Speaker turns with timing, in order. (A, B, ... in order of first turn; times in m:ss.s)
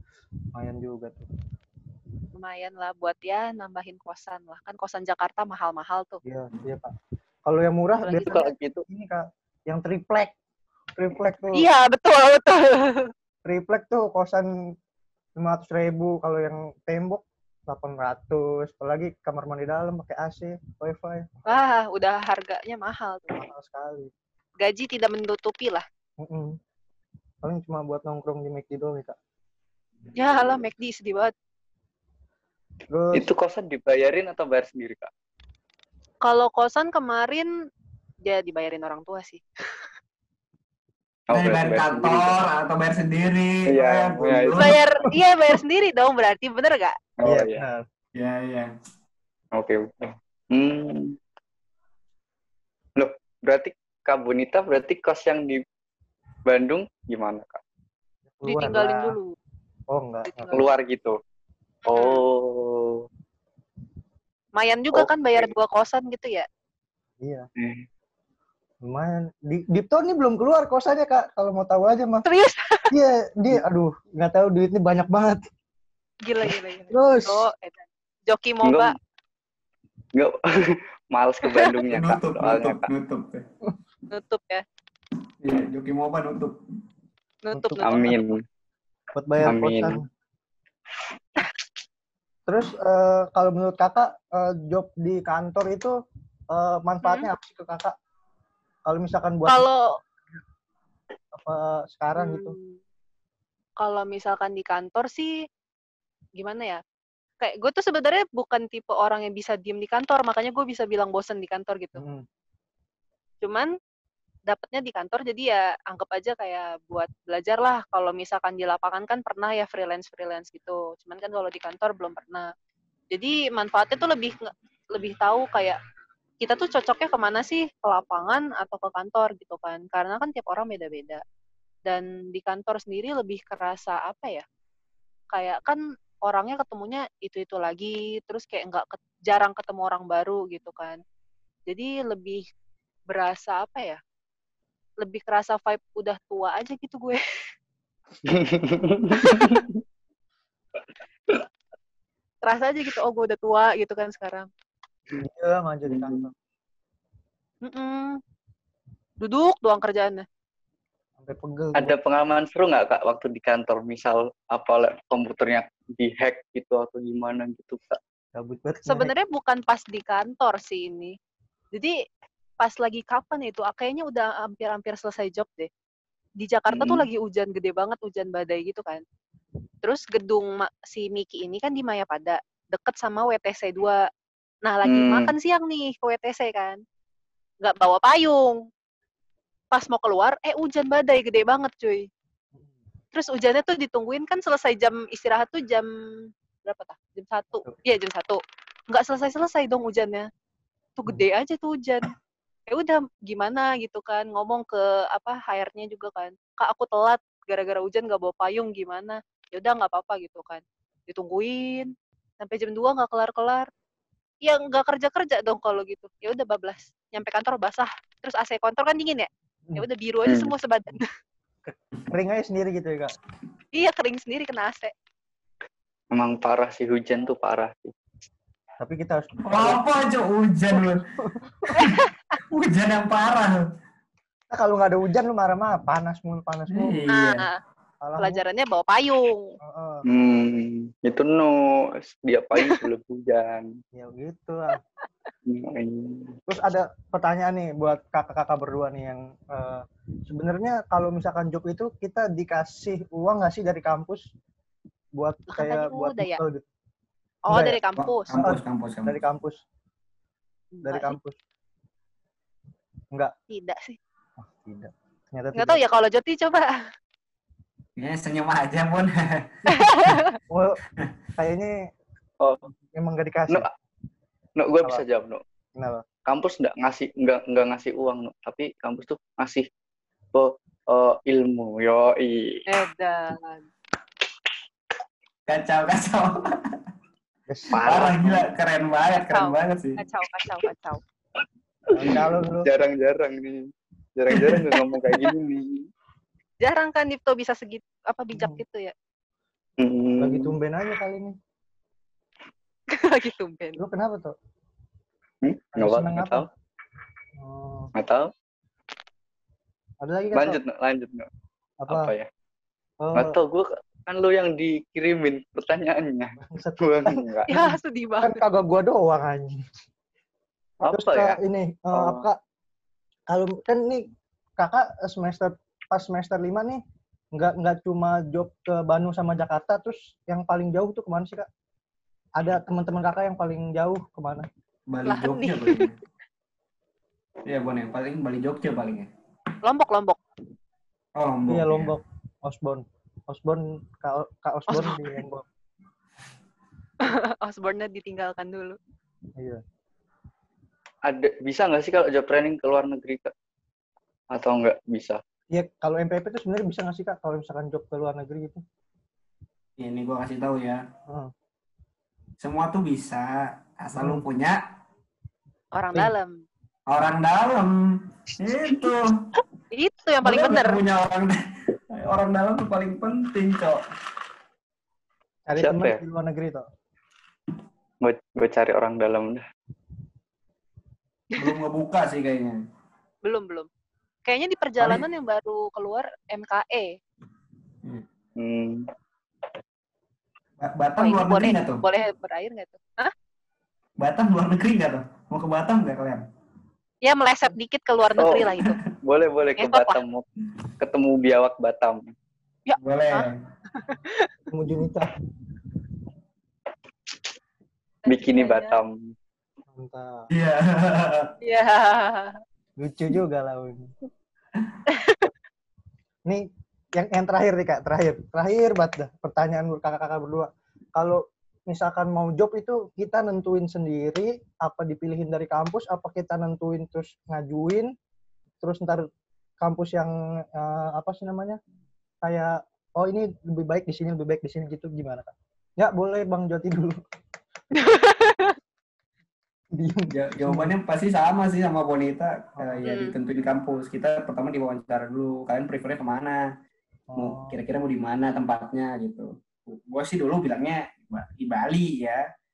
0:00.5-0:01.2 A
0:02.3-0:06.2 B
0:06.2-0:06.9 A
0:07.4-0:10.3 A
0:08.0-0:08.5 B
0:08.3-0:08.8 C
0:11.0-0:11.7 A
0:11.5-0:13.1 B
0:13.4-0:14.5 A
0:15.4-0:21.5 A
0:21.5-0:23.4 B
0:23.3-0:24.1 A
0:24.6-0:25.8 B
0:26.2-0:26.6 A
0:27.4-0:29.2 A
0:30.1-0:31.3 B
0:32.9-0:33.3 A
0:33.1-0:35.1 C
0:36.2-0:37.5 B
0:38.2-0:39.4 B
0:41.3-0:42.4 C
0:41.3-0:44.8 D
0:43.7-0:44.7 C
0:44.5-0:47.0 B
0:47.2-0:47.6 C
0:47.2-0:47.8 A
0:48.1-0:48.7 D
0:49.5-0:51.2 C
0:53.0-0:55.6 C
0:56.4-0:57.6 C
0:58.3-0:59.2 A
0:58.4-0:59.3 B
0:59.9-1:00.5 A
1:00.2-1:00.7 B
1:00.5-1:01.2 C
1:01.8-1:02.2 B
1:01.9-1:03.0 C
1:04.6-1:06.4 B
1:04.9-1:05.5 C
1:07.2-1:07.5 A
1:07.6-1:07.8 C
1:08.8-1:12.2 A
1:12.2-1:12.9 B
1:12.9-1:15.4 A
1:16.2-1:18.9 B
1:16.9-1:17.5 A
1:18.6-1:18.9 C
1:20.1-1:22.9 C
1:21.4-1:21.7 B
1:21.9-1:23.4 D
1:24.1-1:24.6 B
1:25.4-1:26.6 D
1:27.4-1:28.2 B
1:27.5-1:28.2 A
1:27.8-1:28.4 C
1:29.1-1:30.0 A
1:29.4-1:30.0 C
1:32.5-1:35.9 A
1:36.5-1:37.9 A
1:37.0-1:37.3 B
1:38.8-1:39.7 A
1:39.5-1:40.0 B
1:41.3-1:42.6 A
1:42.2-1:42.8 B
1:43.8-1:45.3 B
1:46.4-1:46.8 B
1:47.4-1:52.0 B
1:52.0-1:52.2 A
1:53.4-1:53.7 B
1:54.5-2:02.5 B
2:03.1-2:05.8 B
2:06.4-2:11.2 B
2:11.8-2:14.4 B
2:15.3-2:21.0 B
2:21.7-2:22.4 B
2:23.1-2:24.0 B
2:25.0-2:27.2 B
2:28.2-2:29.8 C
2:29.2-2:29.6 B
2:32.4-2:34.5 B
2:35.2-2:36.3 A
2:35.9-2:36.3 C
2:37.6-2:38.2 B
2:39.2-2:40.2 B
2:41.2-2:41.9 A
2:41.8-2:48.0 C
2:48.3-2:49.1 A
2:48.9-2:51.2 B
2:52.6-2:55.7 B
2:56.4-2:59.0 B
2:56.7-2:57.1 C
2:59.8-3:04.0 B
3:04.6-3:06.8 B
3:04.8-3:05.3 C
3:07.6-3:08.7 B
3:09.7-3:12.1 B
3:13.1-3:20.3 B
3:21.0-3:22.1 B
3:22.7-3:33.7 B
3:34.4-3:41.0 B
3:40.3-3:40.5 C
3:41.6-3:43.1 A
3:43.8-3:44.9 B
3:46.1-3:47.9 C
3:48.8-3:49.8 A
3:49.4-3:51.0 D
3:51.2-3:51.8 A
3:51.8-3:52.3 B
3:51.8-3:53.6 D
3:54.5-3:57.0 A
3:56.7-3:57.5 D
3:57.1-3:57.6 B
3:58.0-3:58.4 A
3:58.2-3:59.5 B
3:59.6-4:00.0 A
4:00.1-4:03.6 C
4:02.6-4:02.8 B
4:03.9-4:04.8 A
4:05.4-4:06.4 C
4:06.5-4:14.2 A
4:15.1-4:16.7 A
4:15.5-4:16.4 B
4:17.4-4:18.2 B
4:17.5-4:17.8 A
4:18.0-4:19.2 D
4:18.3-4:19.6 A
4:20.7-4:21.2 B
4:20.8-4:21.4 A
4:23.5-4:24.0 B
4:24.4-4:25.8 A
4:25.5-4:26.7 B
4:28.0-4:30.2 D
4:29.7-4:30.4 B
4:30.5-4:30.8 A
4:31.4-4:31.7 A
4:32.4-4:32.7 C
4:32.9-4:33.7 A
4:34.6-4:35.4 C
4:35.8-4:36.0 A
4:36.2-4:39.6 C
4:40.3-4:42.6 C
4:42.7-4:43.7 B
4:45.5-4:46.8 D
4:47.5-4:48.4 A
4:47.7-4:48.5 C
4:47.7-4:50.0 D
4:49.2-4:51.0 B
4:51.9-4:52.7 A
4:51.9-4:55.9 C
4:56.6-4:58.9 B
4:58.3-4:58.6 A
4:59.8-5:00.5 C
5:00.2-5:01.4 A
5:02.9-5:03.8 B
5:03.8-5:04.3 A
5:05.4-5:06.4 C
5:05.8-5:06.5 A
5:07.4-5:07.9 A
5:08.0-5:08.3 C
5:10.0-5:10.6 A
5:10.3-5:11.3 C
5:11.8-5:12.1 A
5:11.9-5:12.3 C
5:13.0-5:13.4 A
5:13.1-5:17.5 C
5:16.4-5:19.6 A
5:17.5-5:18.4 B
5:20.8-5:21.4 C
5:20.8-5:22.4 A
5:21.9-5:22.2 C
5:23.3-5:24.1 A
5:24.6-5:26.8 A
5:27.3-5:31.5 A
5:32.4-5:34.5 A
5:34.9-5:36.0 D
5:35.0-5:35.9 B
5:37.4-5:39.1 D
5:39.6-5:40.2 B
5:41.1-5:41.9 D
5:41.5-5:45.4 A
5:44.7-5:45.1 B
5:47.0-5:48.8 B
5:51.0-5:53.3 C
5:54.3-5:55.2 C
5:55.5-5:58.6 A
5:59.8-6:00.8 D
6:02.4-6:04.6 D
6:03.9-6:04.2 A
6:05.7-6:06.4 B
6:06.9-6:07.7 D
6:08.4-6:09.1 D
6:09.7-6:10.8 B
6:10.2-6:11.4 D
6:11.9-6:13.8 D
6:15.5-6:16.6 A
6:15.6-6:16.0 C
6:18.0-6:19.4 C
6:21.4-6:22.6 D
6:23.2-6:23.7 B
6:24.2-6:26.9 B
6:24.8-6:25.0 D
6:28.4-6:28.9 C
6:30.6-6:31.8 D
6:31.0-6:33.1 B
6:34.0-6:36.2 D
6:37.0-6:38.8 B
6:38.2-6:40.2 C
6:38.3-6:38.8 D
6:39.6-6:40.0 B
6:40.8-6:42.0 C
6:42.6-6:44.3 B
6:42.8-6:43.4 D
6:44.5-6:45.1 A
6:48.0-6:48.8 B
6:48.1-6:49.1 C
6:49.7-6:50.3 A
6:50.3-6:51.3 D
6:51.4-6:52.4 B
6:52.8-6:53.9 A
6:54.9-6:55.3 B
6:56.2-7:07.9 A
7:08.6-7:09.0 A
7:09.6-7:11.6 A
7:12.2-7:17.0 A
7:17.7-7:18.6 B
7:19.7-7:20.7 A
7:20.1-7:26.4 D
7:22.6-7:23.0 A
7:22.8-7:23.2 B
7:27.1-7:27.5 A
7:27.2-7:32.2 D